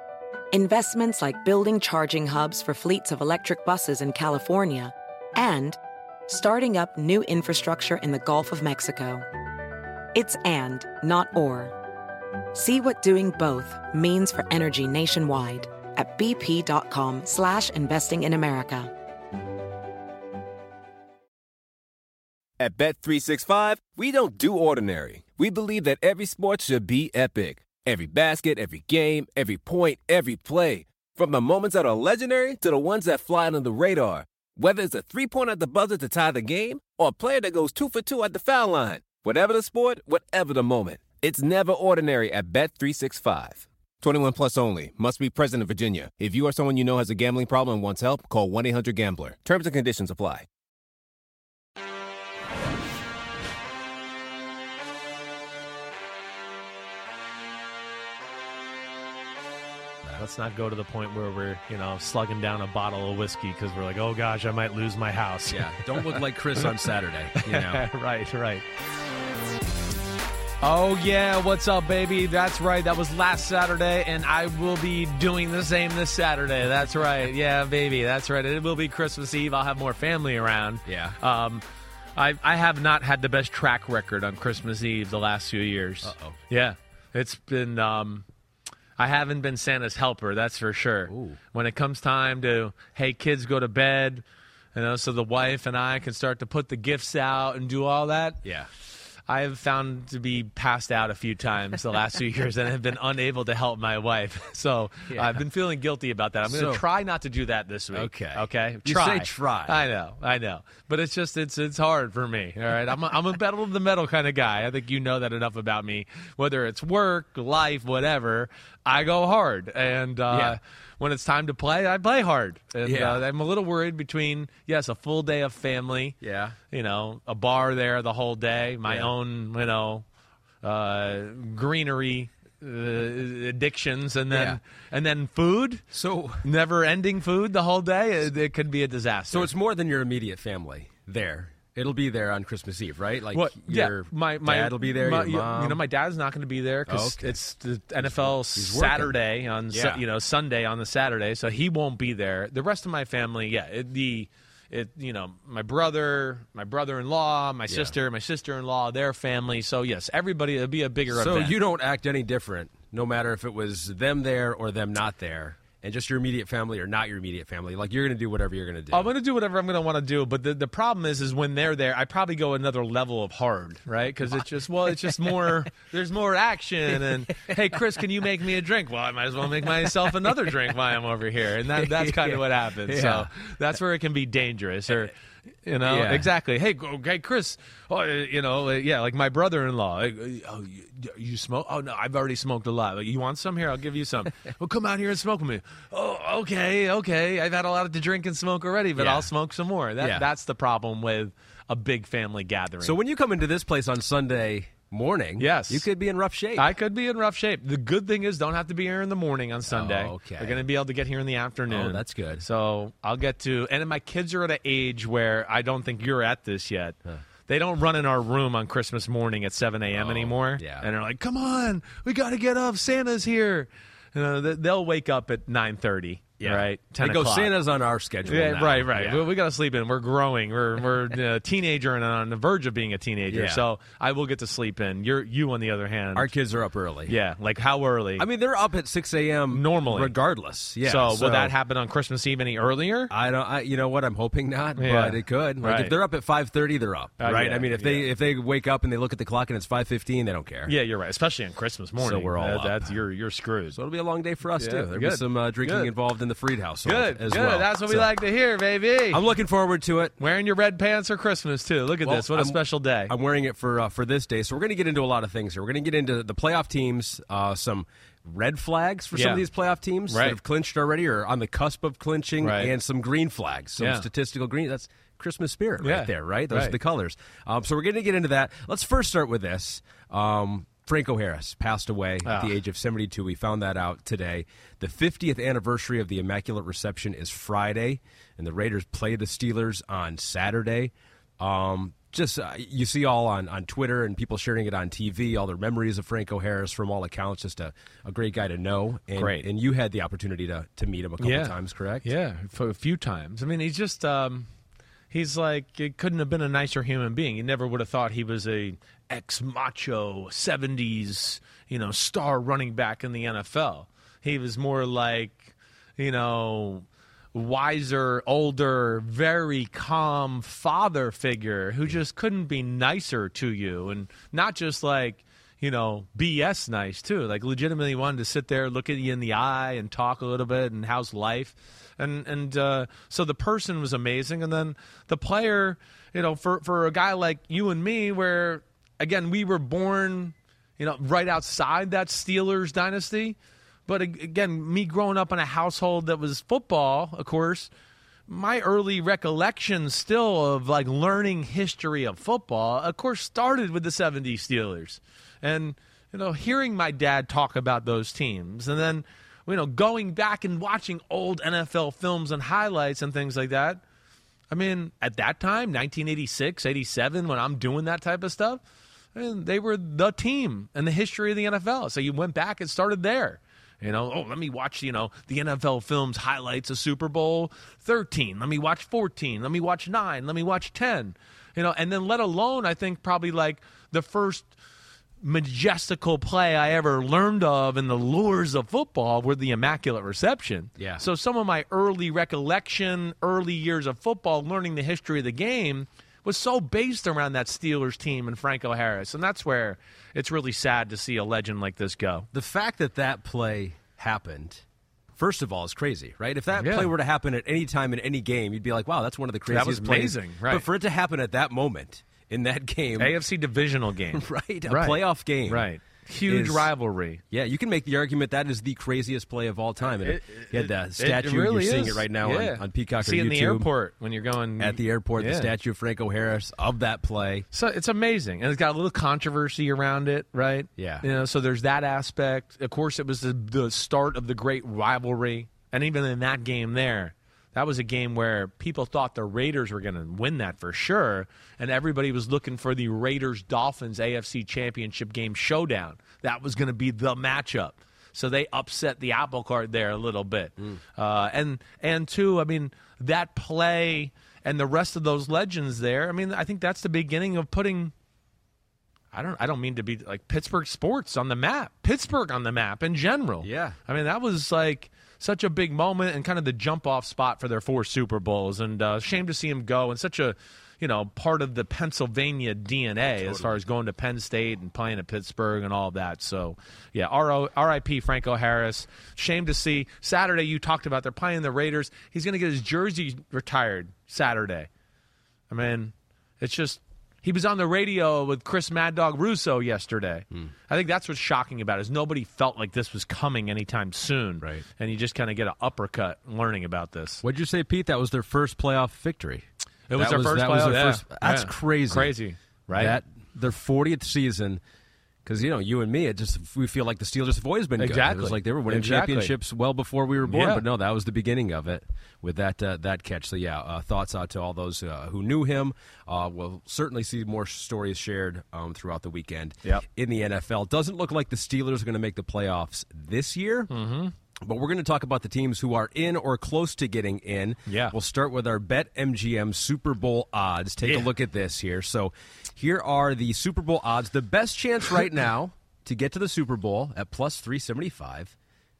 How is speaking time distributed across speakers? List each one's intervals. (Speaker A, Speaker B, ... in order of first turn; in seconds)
Speaker A: 0.5-9.2, 10.1-11.7, 12.5-18.9
Speaker B: 22.6-50.5
Speaker C: 60.2-68.6, 70.6-81.6, 82.2-88.2, 89.0-94.2, 94.7-98.4, 99.3-126.2, 126.7-130.0, 130.6-135.8, 136.4-139.5, 143.3-161.5, 168.9-185.1, 185.7-202.9, 205.4-205.8, 206.6-227.5, 228.2-236.3, 237.1-238.2, 239.5-240.1, 240.8-243.1, 244.8-245.9, 247.2-248.1, 250.7-253.8, 254.6-255.9, 256.8-259.2, 260.2-263.1, 269.1-269.4, 270.1-270.4, 272.4-272.7, 273.8-274.1, 275.8-276.8, 282.2-282.5, 299.1-299.4, 301.2-304.5, 305.1-343.4, 343.9-347.7, 348.3-363.8, 364.5-368.6, 369.1-384.5, 385.2-402.3, 406.6-406.9, 409.5-410.6, 413.0-417.2, 420.0-425.5, 427.5-457.9, 459.1-484.7, 485.5-497.2, 499.9-503.0, 507.8-509.3, 510.2-510.6, 523.7-524.1, 527.7-527.9, 530.8-531.1
Speaker D: 65.5-67.8, 80.8-81.2, 86.0-86.4, 91.1-91.4, 98.4-98.7, 105.1-105.4, 106.4-106.8, 107.9-109.8, 120.3-120.6, 122.8-123.2, 126.2-126.6, 128.8-129.1, 134.3-134.6, 135.9-136.5, 139.3-145.8, 146.9-147.3, 148.0-149.2, 149.7-150.0, 157.7-157.9, 161.1-169.1, 174.3-175.3, 176.9-177.8, 179.6-180.2, 181.7-183.3, 185.8-186.3, 199.0-199.3, 200.0-200.3, 202.8-206.7, 209.6-210.6, 211.7-212.4, 219.9-220.9, 226.4-229.3, 233.3-233.6, 236.1-237.2, 238.2-241.5, 243.1-250.8, 252.0-252.9, 253.7-258.1, 259.1-260.1, 262.0-302.1, 390.8-391.0, 402.3-404.6, 405.1-413.1, 414.1-415.7, 416.3-416.7, 417.3-423.7, 424.6-427.4, 430.8-431.1, 463.4-463.8, 473.1-473.5, 494.4-494.6, 497.2-502.1, 502.8-504.6, 505.2-523.7, 524.4-538.3